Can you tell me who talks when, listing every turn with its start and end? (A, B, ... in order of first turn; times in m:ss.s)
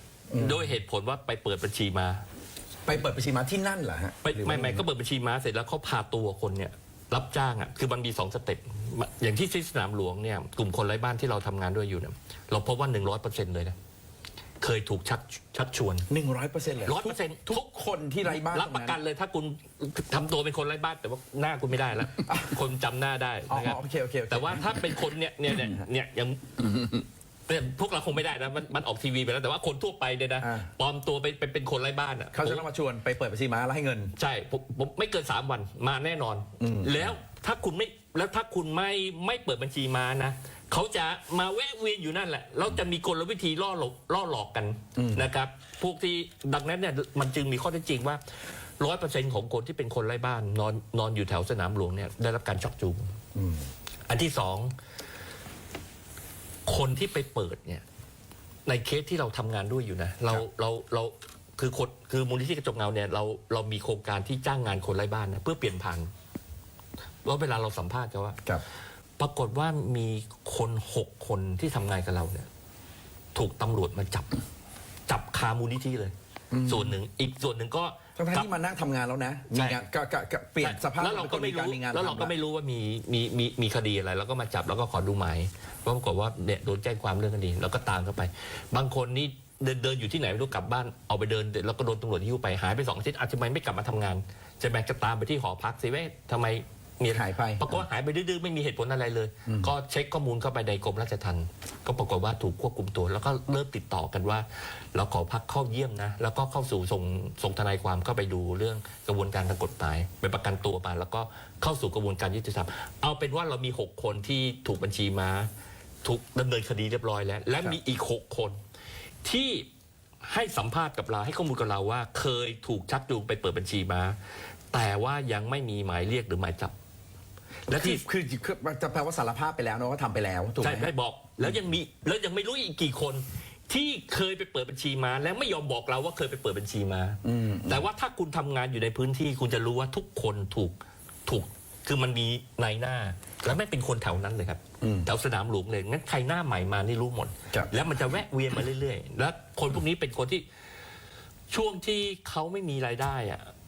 0:00.3-0:00.8 A
0:00.4-0:02.2 B
0:02.9-0:04.8 A
0:04.2-0:13.8 B
0:14.6-0:16.1 B
0:16.1-0:19.0 A
0:16.8-0:17.7 B
0:18.2-0:32.6 B
0:22.3-0:22.6 A
0:23.5-0:25.0 A
0:30.4-0:30.7 A
0:32.3-0:34.1 A
0:34.2-0:48.2 B
0:36.6-0:37.1 A
0:45.0-0:45.3 A
0:48.8-0:53.1 B
0:53.4-0:53.7 A
0:54.1-0:54.7 B
0:56.7-0:57.8 B
0:58.7-1:06.1 B
1:07.2-1:08.4 B
1:09.2-1:12.5 B
1:13.4-1:14.3 B
1:15.1-1:18.5 B
1:16.5-1:17.0 A
1:18.2-1:22.3 A
1:19.5-1:19.8 B
1:20.6-1:55.5 B
1:37.1-1:37.8 A
1:39.5-1:39.7 A
1:56.0-1:58.6 B
1:59.2-1:59.7 B
2:00.2-2:04.2 B
2:04.7-2:06.7 B
2:07.7-2:08.0 B
2:07.7-2:10.9 A
2:10.6-2:30.4 B
2:17.2-2:17.9 A
2:24.8-2:25.1 A
2:31.5-2:33.5 B